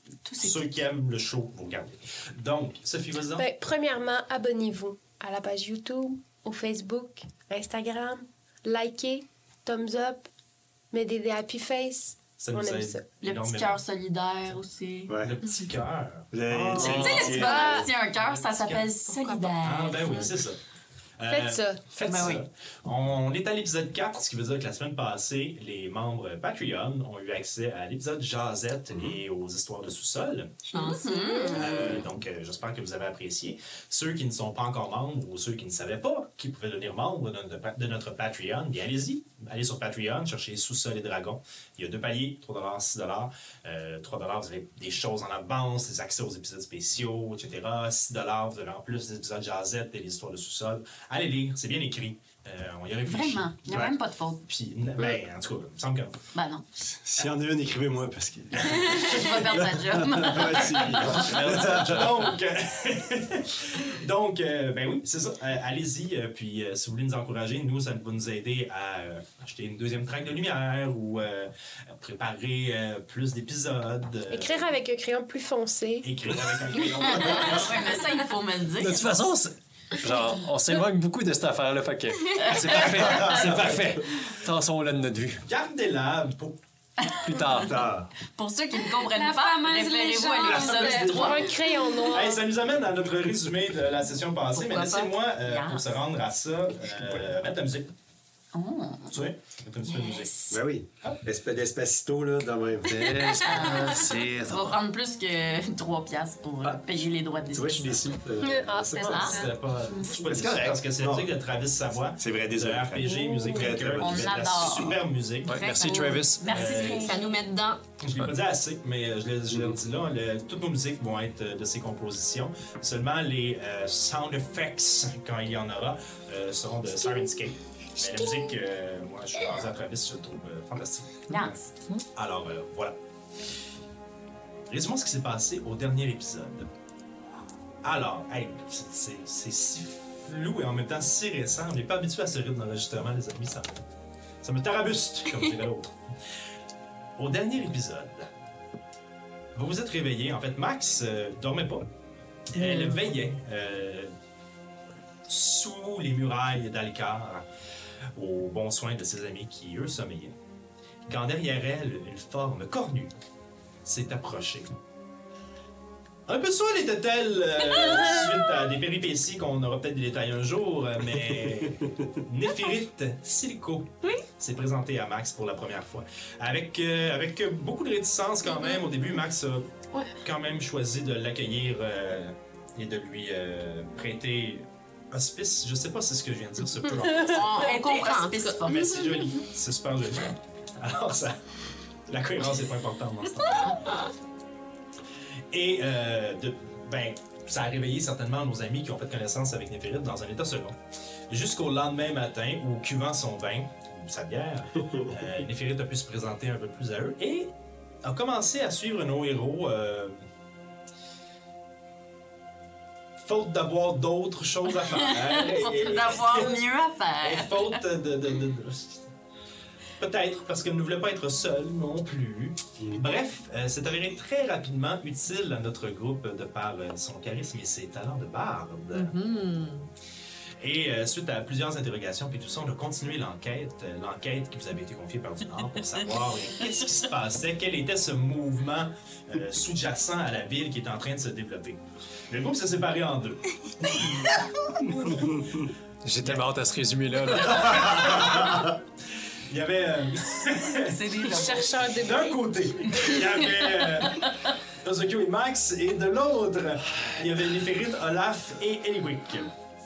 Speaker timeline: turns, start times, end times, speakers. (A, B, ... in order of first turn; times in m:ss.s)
0:00.2-0:00.6 A
0:00.4-0:03.5 B
0:03.4-0:10.3 C
0:10.9-0:13.0 C
0:12.4-0:13.8 B
0:13.2-0:15.1 A
0:15.1-0:15.4 D
0:15.2-0:18.9 B
0:16.3-0:17.8 D
0:16.8-0:20.2 A
0:19.1-0:20.3 E
0:19.6-0:20.6 B
0:21.2-0:30.7 B
0:21.3-0:21.8 C
0:22.0-0:22.4 A
0:30.7-0:31.8 A
0:30.7-0:32.0 E
0:31.5-0:56.1 B
0:53.1-0:54.4 A
0:56.3-0:56.8 A
0:57.0-1:02.3 D
0:58.6-0:59.5 B
0:58.8-1:01.5 A
1:00.7-1:14.7 B
1:14.3-1:16.1 C
1:16.0-1:17.9 B
1:17.1-1:19.2 A
1:18.8-1:25.4 F
1:22.4-1:23.4 A
1:23.1-1:23.5 D
1:23.4-1:23.8 B
1:25.4-1:26.6 B
1:27.0-1:27.7 A
1:27.2-1:27.7 F
1:27.6-1:28.1 D
1:28.3-1:31.5 A
1:28.9-1:32.0 E
1:30.4-1:31.3 B
1:31.1-1:32.4 C
1:32.1-1:37.9 B
1:34.5-1:35.2 E
1:35.4-1:36.0 A
1:38.5-1:39.2 A
1:39.1-1:40.3 B
1:40.5-1:43.6 D
1:43.4-1:48.2 A
1:43.6-1:44.8 F
1:47.5-1:49.4 D
1:48.4-1:49.5 C
1:49.0-1:49.5 A
1:49.2-1:55.7 B
1:50.2-1:51.3 D
1:52.2-1:54.4 D
1:53.7-1:55.0 A
1:55.4-1:56.6 F
1:55.6-1:57.3 A
1:55.6-1:57.8 E
1:56.4-1:57.1 B
1:58.0-2:13.0 B
2:11.3-2:11.6 A
2:14.7-2:16.7 B
2:17.8-2:23.8 B
2:24.4-2:25.9 B
2:27.2-2:28.3 B
2:29.5-2:31.9 B
2:32.5-2:34.1 B
2:35.2-2:37.4 B
2:38.1-2:40.4 B
2:41.1-2:43.1 B
2:43.8-2:44.8 B
2:46.3-2:59.7 B
2:58.5-2:58.8 E
3:00.2-3:07.6 B
3:07.2-3:09.1 E
3:07.3-3:08.9 A
3:08.6-3:11.4 B
3:12.1-3:13.8 B
3:15.5-3:20.8 B
3:21.3-3:30.2 B
3:33.2-3:36.6 B
3:34.8-3:37.8 A
3:37.2-3:39.1 B
3:40.0-3:49.2 B
3:48.9-3:49.9 E
3:50.6-4:03.4 B
4:03.9-4:04.4 B
4:04.9-4:05.1 B
4:06.0-4:08.0 F
4:06.2-4:06.5 B
4:07.5-4:08.7 B
4:09.5-4:11.2 B
4:10.8-4:11.7 A
4:11.2-4:12.4 C
4:12.0-4:14.3 B
4:14.8-4:19.5 B